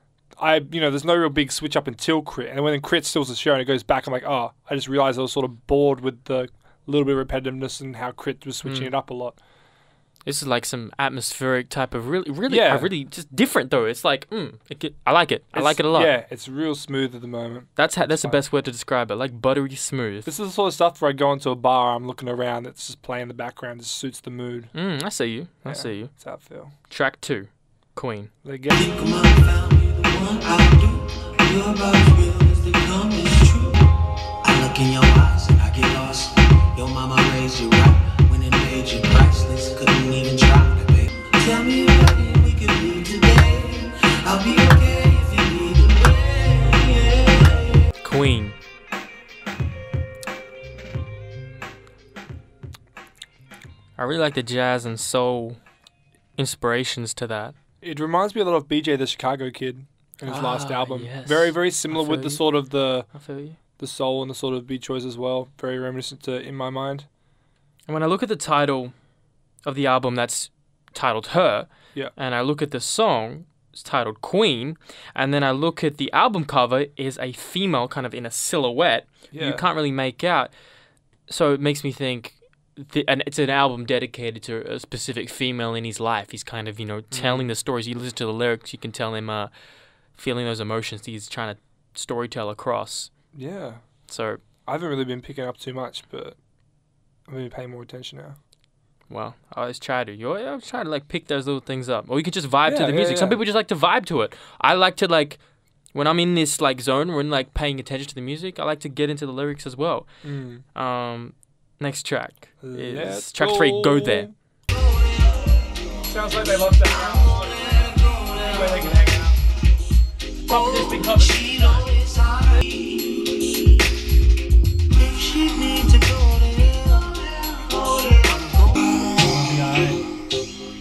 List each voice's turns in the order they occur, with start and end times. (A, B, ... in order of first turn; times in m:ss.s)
0:00.4-0:09.4 A
0:08.6-0:08.9 B
0:10.2-0:16.1 B
0:12.5-0:12.9 A
0:15.5-0:18.4 A
0:17.8-0:20.3 B
0:20.3-0:24.7 A
0:24.7-0:26.2 B
0:25.6-0:26.7 A
0:26.8-0:28.3 B
0:28.4-0:29.0 A
0:28.7-0:33.9 C
0:34.4-0:47.9 C
0:48.0-0:48.6 B
0:54.0-0:55.6 B
0:56.4-0:57.6 B
0:57.8-1:03.1 A
1:00.2-1:02.6 B
1:03.1-1:03.6 B
1:03.8-1:07.1 A
1:07.9-1:08.9 B
1:09.6-1:20.5 B
1:19.3-1:19.6 A
1:21.3-1:29.5 B
1:27.1-1:27.5 A
1:30.1-1:33.1 B
1:33.3-1:33.8 A
1:34.1-1:34.4 B
1:34.7-1:36.4 A
1:37.3-1:38.4 A
1:39.1-1:45.4 B
1:42.7-1:43.4 A
1:45.9-1:50.1 B
1:50.2-1:50.6 A
1:50.7-1:54.3 B
1:52.6-1:54.3 A
1:54.7-1:56.0 C
1:56.1-1:59.4 A
1:56.7-1:59.0 C
2:00.5-2:01.9 B
2:00.5-2:03.7 C
2:04.9-2:09.1 C
2:09.2-2:10.0 B